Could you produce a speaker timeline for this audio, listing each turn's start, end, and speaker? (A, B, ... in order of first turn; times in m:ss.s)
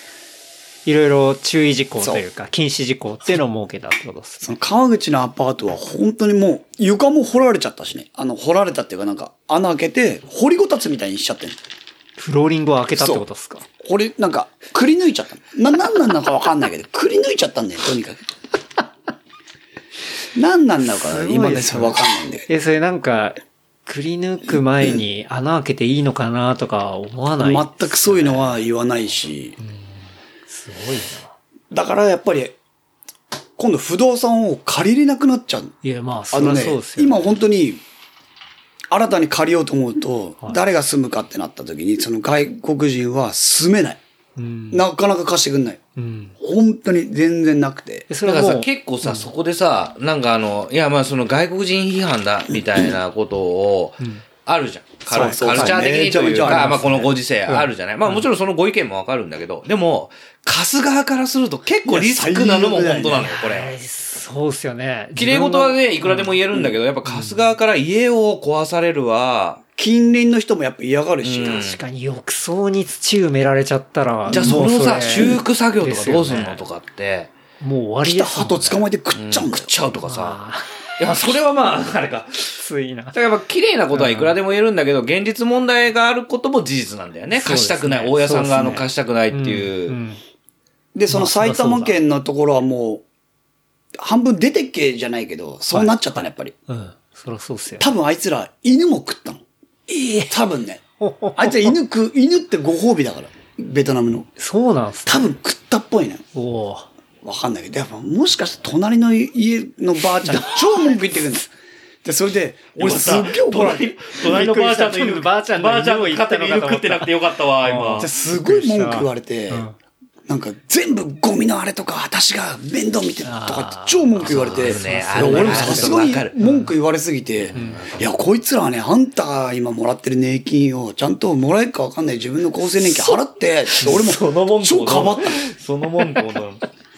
0:00.8-0:04.6 A
0:02.0-0:02.3 B
0:04.4-0:11.6 B
0:12.2-0:13.6 A
0:13.0-0:13.2 B
0:13.8-0:18.2 B
0:20.4-0:22.5 B
0:20.8-0:28.6 A
0:27.4-0:29.6 B
0:29.6-0:31.4 A
0:31.7-0:32.6 B
0:33.6-0:35.8 B
0:35.8-0:37.4 A
0:36.3-0:37.8 B
0:38.9-0:44.0 B
0:44.4-0:44.8 A
0:44.7-0:45.8 B
0:46.0-0:46.4 A
0:46.4-0:48.1 B
0:48.1-0:49.3 A
0:48.2-1:03.7 C
0:55.1-0:56.9 B
0:55.1-0:58.3 A
1:01.8-1:03.3 B
1:03.1-1:06.4 A
1:05.2-1:09.6 C
1:07.1-1:07.4 A
1:09.8-1:11.7 B
1:11.2-1:11.8 C
1:11.5-1:16.6 A
1:14.3-1:17.3 C
1:17.6-1:18.8 A
1:18.0-1:19.7 B
1:19.2-1:20.4 C
1:20.0-1:20.7 A
1:21.0-1:22.6 C
1:22.6-1:23.2 A
1:23.1-1:30.0 C
1:23.9-1:24.4 A
1:27.3-1:30.2 A
1:30.9-1:33.0 B
1:31.1-1:32.0 A
1:34.0-1:36.5 B
1:35.7-1:37.9 A
1:37.8-1:39.4 B
1:39.9-1:40.3 A
1:40.3-1:40.8 B
1:41.0-1:41.8 A
1:41.4-1:44.3 B
1:44.4-1:45.3 A
1:45.1-1:46.2 B
1:46.4-1:46.9 A
1:47.2-1:51.5 B
1:50.2-1:51.0 A
1:52.0-1:53.9 B
1:52.8-1:58.1 C
1:54.2-1:59.8 A
1:58.0-1:59.7 B
2:00.3-2:15.4 B
2:03.2-2:06.7 A
2:04.2-2:06.3 C
2:07.5-2:07.9 A
2:12.8-2:16.6 C